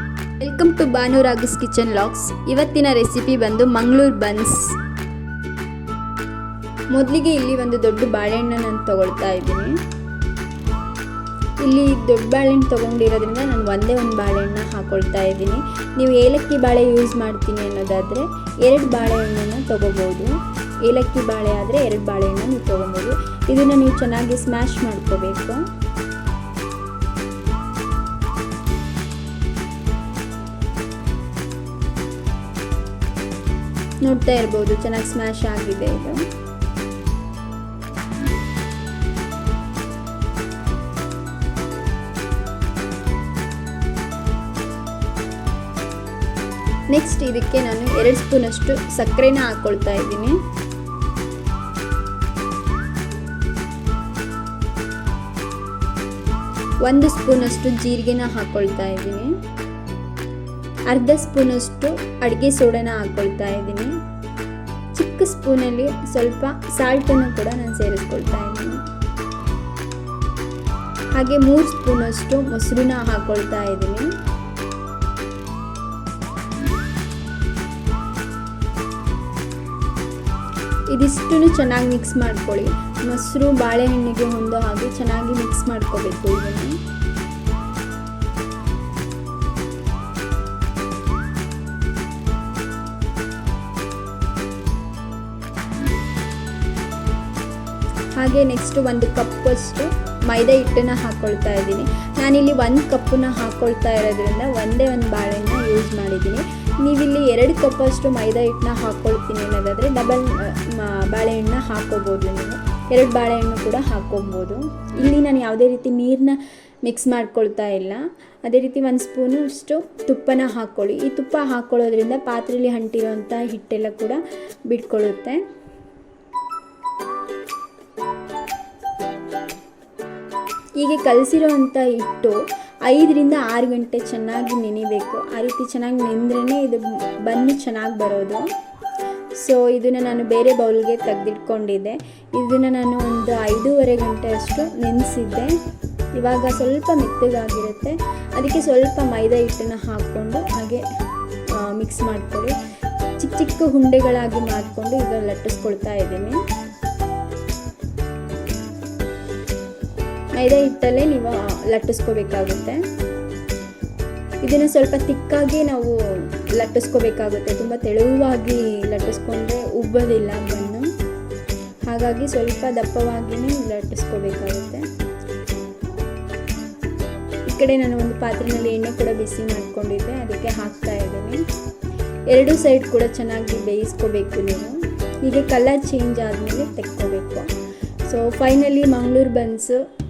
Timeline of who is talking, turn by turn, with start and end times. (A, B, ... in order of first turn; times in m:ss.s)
0:00.4-0:04.7 A
0:06.9-0:09.7 A
0:11.6-0:20.3 A
0:20.8-0:25.6 A
0:34.0-0:36.2 A
0:46.9-0:50.4 A
0:56.8-0:59.3 A
1:00.9-1:03.9 A
1:05.0-1:08.8 A
1:11.2-1:14.1 A
1:20.9-1:26.8 A
1:38.2-2:05.4 A
2:10.8-2:18.4 A
2:19.4-2:25.5 A
2:26.2-2:30.8 A
2:31.6-2:32.6 A
2:33.2-2:36.4 A
2:40.3-2:42.8 A
2:44.4-2:46.0 A
2:46.5-2:50.8 A
2:51.9-2:54.8 A
2:57.5-3:01.4 A
3:02.3-3:07.5 A
3:08.1-3:09.8 A